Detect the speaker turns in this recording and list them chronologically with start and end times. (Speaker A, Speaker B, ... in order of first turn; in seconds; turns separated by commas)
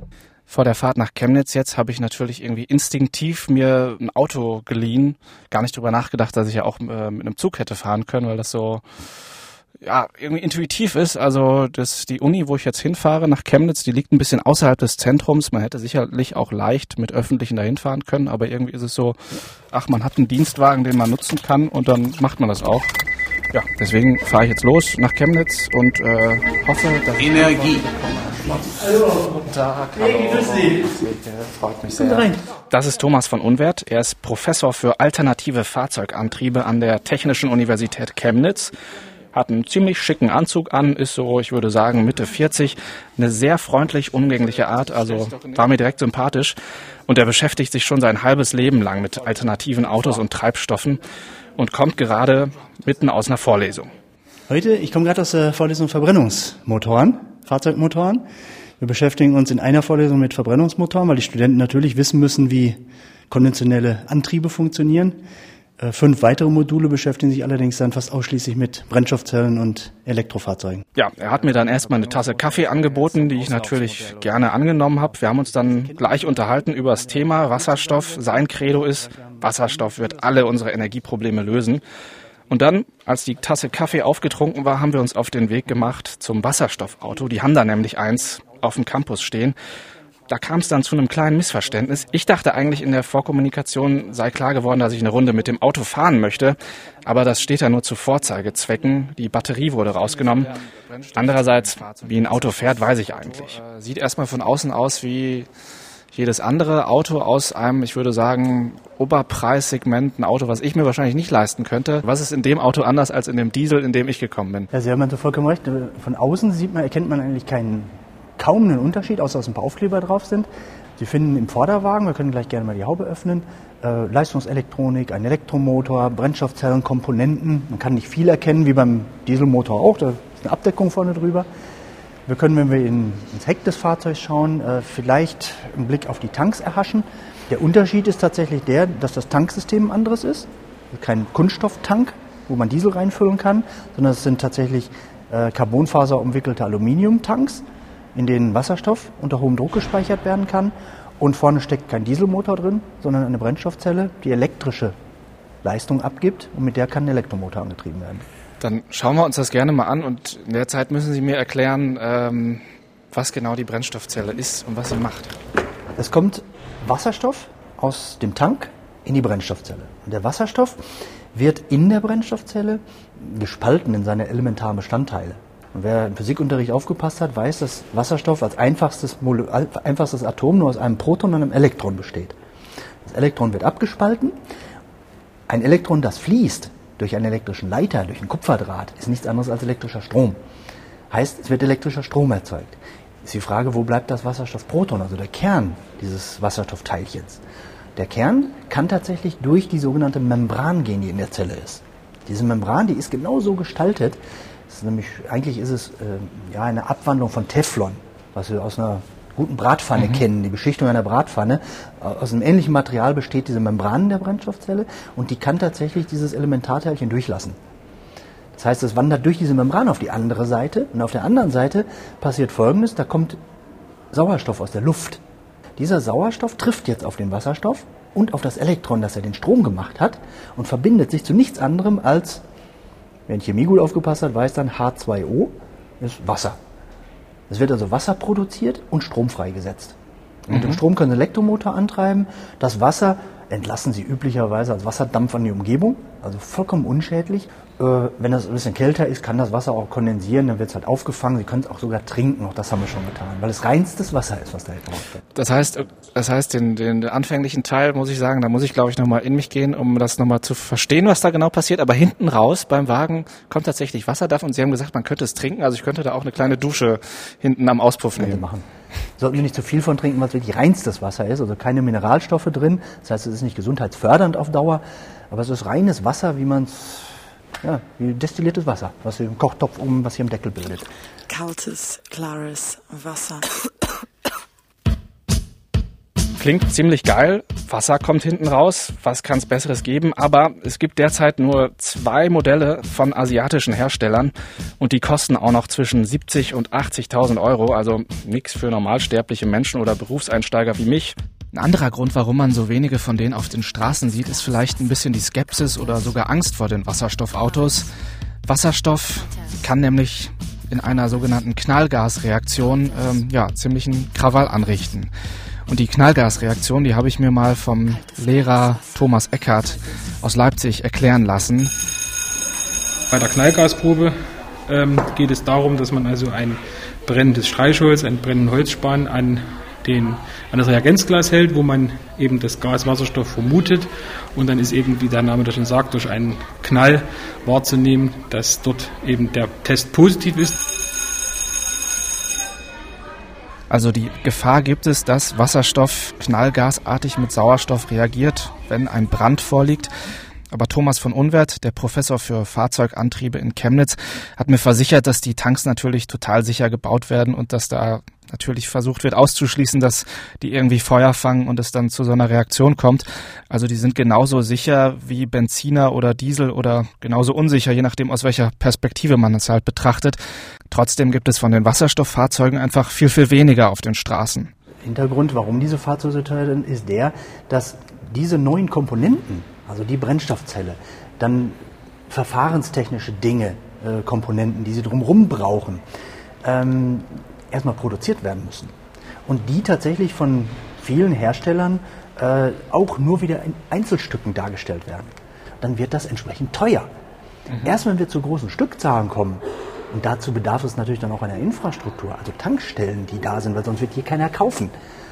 Speaker A: 0.5-19.2, Speaker A: 19.7-22.9, Speaker A: 23.5-38.7, Speaker B: 28.7-29.3, Speaker B: 30.0-30.8, Speaker B: 31.9-32.4, Speaker A: 39.3-46.6, Speaker A: 47.1-51.0, Speaker A: 51.6-53.9, Speaker B: 54.5-58.3, Speaker B: 58.8-65.2, Speaker B: 65.8-70.9, Speaker A: 71.0-81.8, Speaker B: 72.0-74.4, Speaker B: 75.6-79.8, Speaker A: 82.5-89.5, Speaker A: 90.3-105.5, Speaker A: 106.1-114.7, Speaker B: 114.7-131.5, Speaker B: 132.3-154.9, Speaker B: 155.6-158.2, Speaker A: 158.6-165.4, Speaker B: 166.0-170.8, Speaker B: 171.3-182.4, Speaker B: 183.1-184.4, Speaker B: 185.5-190.4, Speaker B: 191.1-197.4, Speaker B: 198.0-217.6, Speaker B: 218.6-223.4, Speaker B: 224.1-225.2, Speaker B: 225.8-232.4, Speaker B: 233.3-236.6, Speaker B: 237.5-255.2, Speaker A: 240.5-240.8, Speaker A: 255.3-268.4, Speaker B: 268.1-268.7, Speaker B: 269.2-280.9, Speaker C: 281.3-284.0, Speaker A: 286.4-307.9, Speaker C: 303.9-306.2, Speaker C: 307.4-307.9, Speaker A: 308.5-315.1, Speaker C: 309.2-309.6, Speaker C: 312.7-313.2, Speaker A: 315.7-321.7, Speaker C: 317.9-319.2, Speaker C: 319.7-320.1, Speaker D: 323.1-324.1, Speaker D: 324.7-340.6, Speaker A: 343.7-349.9, Speaker A: 350.5-370.2, Speaker A: 370.7-374.5, Speaker B: 374.8-385.8, Speaker B: 386.4-388.7, Speaker B: 389.2-396.9, Speaker B: 397.5-404.7